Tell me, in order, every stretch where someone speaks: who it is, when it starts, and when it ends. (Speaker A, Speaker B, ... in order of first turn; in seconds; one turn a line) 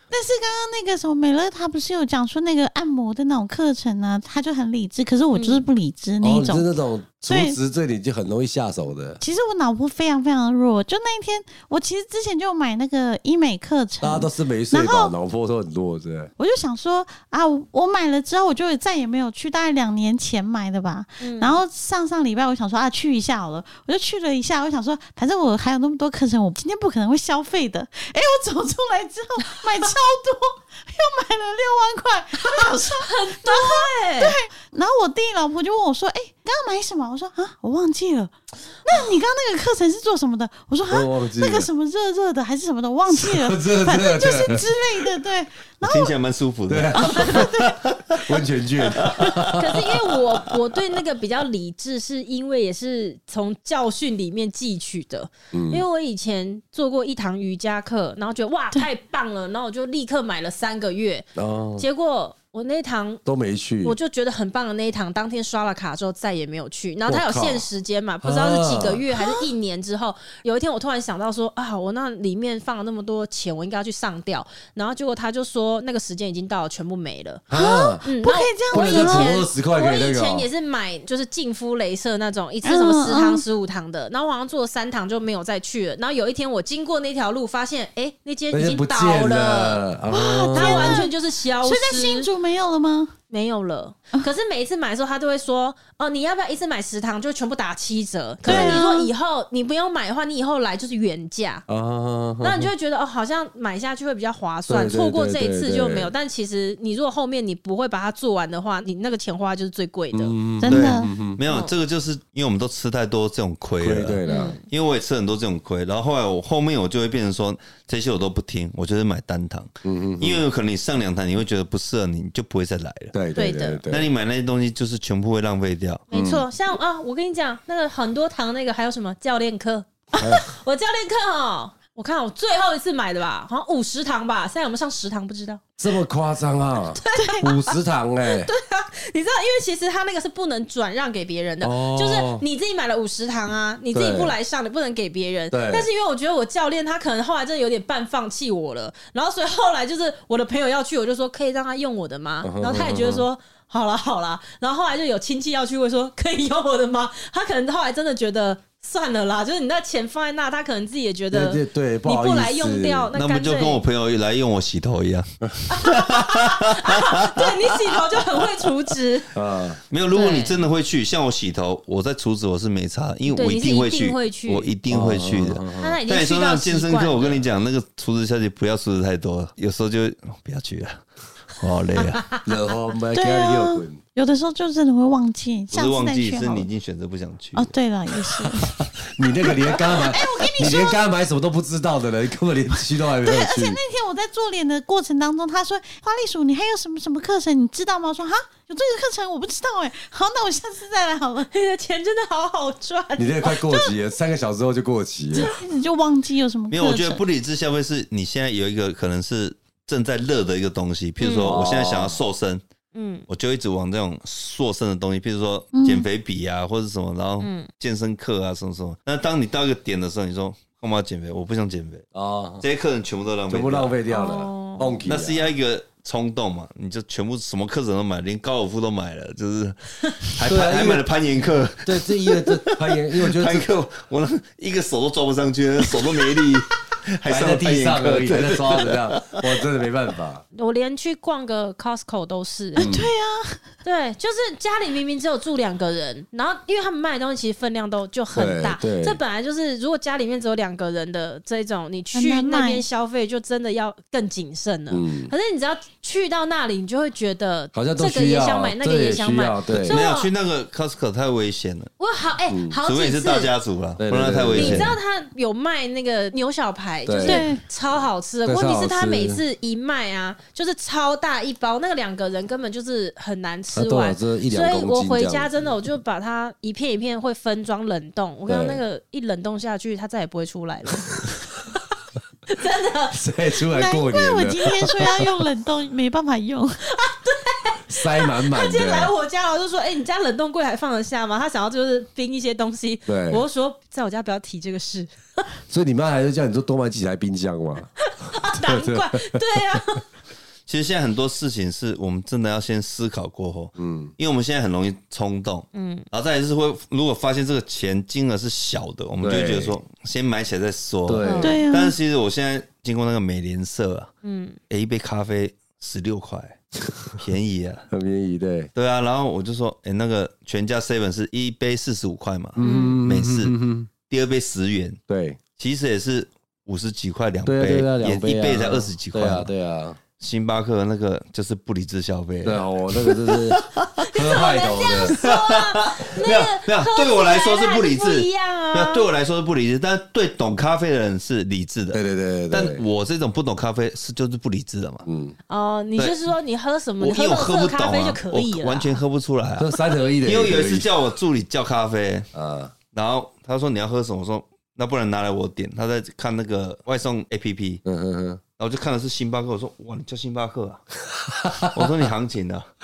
Speaker A: 0.1-6.7
Speaker B: 5.3-5.6
Speaker C: 6.2-9.2
Speaker A: 7.3-7.6
Speaker A: 9.2-15.1
Speaker C: 14.0-16.3
Speaker A: 16.4-46.1
Speaker B: 21.2-21.6
Speaker B: 32.4-34.4
Speaker C: 40.9-41.7
Speaker C: 43.1-44.6
Speaker D: 45.8-49.6
Speaker C: 46.7-47.6
Speaker A: 47.0-47.8
Speaker C: 48.1-49.6
Speaker B: 49.5-61.3
Speaker C: 55.5-55.8
Speaker C: 61.3-61.8
Speaker B: 61.8-63.2
Speaker C: 63.2-64.0
Speaker B: 63.8-77.5
Speaker C: 67.1-67.7
Speaker C: 68.2-69.0
Speaker C: 77.5-78.1
Speaker A: 77.5-79.3
Speaker B: 78.0-89.8
Speaker C: 78.7-80.5
Speaker A: 82.6-83.4
Speaker C: 88.5-91.1
Speaker A: 90.1-93.1
Speaker B: 90.5-92.3
Speaker B: 93.3-101.6
Speaker C: 98.4-98.8
Speaker A: 98.4-99.1
Speaker C: 101.7-102.7
Speaker B: 102.4-110.4
Speaker C: 104.7-106.1
Speaker C: 110.1-111.4
Speaker A: 110.6-111.1
Speaker D: 110.7-123.1
Speaker B: 111.5-111.7
Speaker C: 113.8-114.6
Speaker B: 114.2-114.6
Speaker C: 119.8-120.4
Speaker C: 123.1-124.1
Speaker B: 123.4-123.8
Speaker D: 123.9-126.0
Speaker B: 126.1-135.6
Speaker C: 126.1-126.4
Speaker C: 130.2-130.4
Speaker C: 135.8-138.5
Speaker B: 136.9-163.8
Speaker C: 141.6-142.4
Speaker C: 143.9-144.3
Speaker C: 145.5-145.9
Speaker C: 152.4-153.2
Speaker C: 161.3-163.1
Speaker D: 163.2-167.5
Speaker B: 165.7-169.3
Speaker C: 169.3-169.8
Speaker D: 169.9-181.0
Speaker B: 170.1-170.6
Speaker B: 173.3-174.7
Speaker C: 174.9-176.0
Speaker B: 175.8-177.4
Speaker D: 181.5-182.2
Speaker B: 182.2-182.4
Speaker C: 182.4-184.0
Speaker A: 183.1-186.7
Speaker D: 185.7-187.7
Speaker A: 187.6-188.9
Speaker C: 189.0-193.8
Speaker A: 189.4-191.0
Speaker A: 193.2-201.5
Speaker B: 201.5-203.9
Speaker C: 203.2-205.5
Speaker A: 205.3-207.2
Speaker D: 206.7-212.6
Speaker B: 211.2-211.5
Speaker C: 211.4-212.2
Speaker B: 212.9-213.2
Speaker D: 213.3-222.0
Speaker A: 215.7-216.1
Speaker B: 217.4-217.7
Speaker C: 222.1-222.6
Speaker D: 222.6-223.9
Speaker C: 223.5-225.5
Speaker B: 224.1-225.0
Speaker D: 225.1-239.4
Speaker C: 230.4-231.1
Speaker C: 231.8-233.7
Speaker C: 237.2-240.4
Speaker B: 240.5-242.9
Speaker A: 242.8-243.6
Speaker C: 242.8-243.1
Speaker B: 243.8-260.3
Speaker C: 248.3-249.2
Speaker A: 252.1-252.8
Speaker C: 254.9-255.3
Speaker C: 257.7-260.0
Speaker D: 259.8-261.9
Speaker B: 262.0-263.5
Speaker C: 262.5-262.8
Speaker D: 262.8-264.9
Speaker C: 264.0-265.0
Speaker B: 264.5-281.4
Speaker C: 267.1-267.5
Speaker A: 267.2-267.6
Speaker C: 268.4-269.4
Speaker C: 273.7-275.5
Speaker C: 278.5-278.8
Speaker B: 282.5-283.2
Speaker C: 283.1-285.3
Speaker A: 283.7-286.8
Speaker B: 286.9-295.4
Speaker C: 287.9-289.1
Speaker C: 293.1-293.4
Speaker C: 295.7-297.9
Speaker B: 298.0-300.0
Speaker C: 298.4-299.4
Speaker D: 300.7-314.1
Speaker C: 303.8-304.1
Speaker B: 305.7-306.1
Speaker C: 309.2-309.8
Speaker C: 311.1-311.6
Speaker B: 311.2-311.6
Speaker A: 311.4-311.9
Speaker B: 314.2-314.6
Speaker D: 314.7-316.6
Speaker D: 317.1-317.9
Speaker C: 317.9-318.7
Speaker D: 318.8-325.0
Speaker C: 322.6-323.9
Speaker B: 322.6-323.0
Speaker C: 325.1-325.4
Speaker D: 325.6-329.5
Speaker C: 327.4-330.0
Speaker D: 330.2-334.1
Speaker C: 332.4-335.2
Speaker B: 334.1-339.1
Speaker D: 335.1-342.0
Speaker C: 341.9-342.8
Speaker D: 342.5-345.1
Speaker C: 345.1-345.4
Speaker B: 345.5-349.0
Speaker D: 347.0-352.2
Speaker C: 349.6-350.9
Speaker C: 352.3-352.7
Speaker D: 352.9-357.8
Speaker C: 357.9-358.4
Speaker D: 358.6-360.8
Speaker C: 361.1-361.9
Speaker D: 361.6-362.6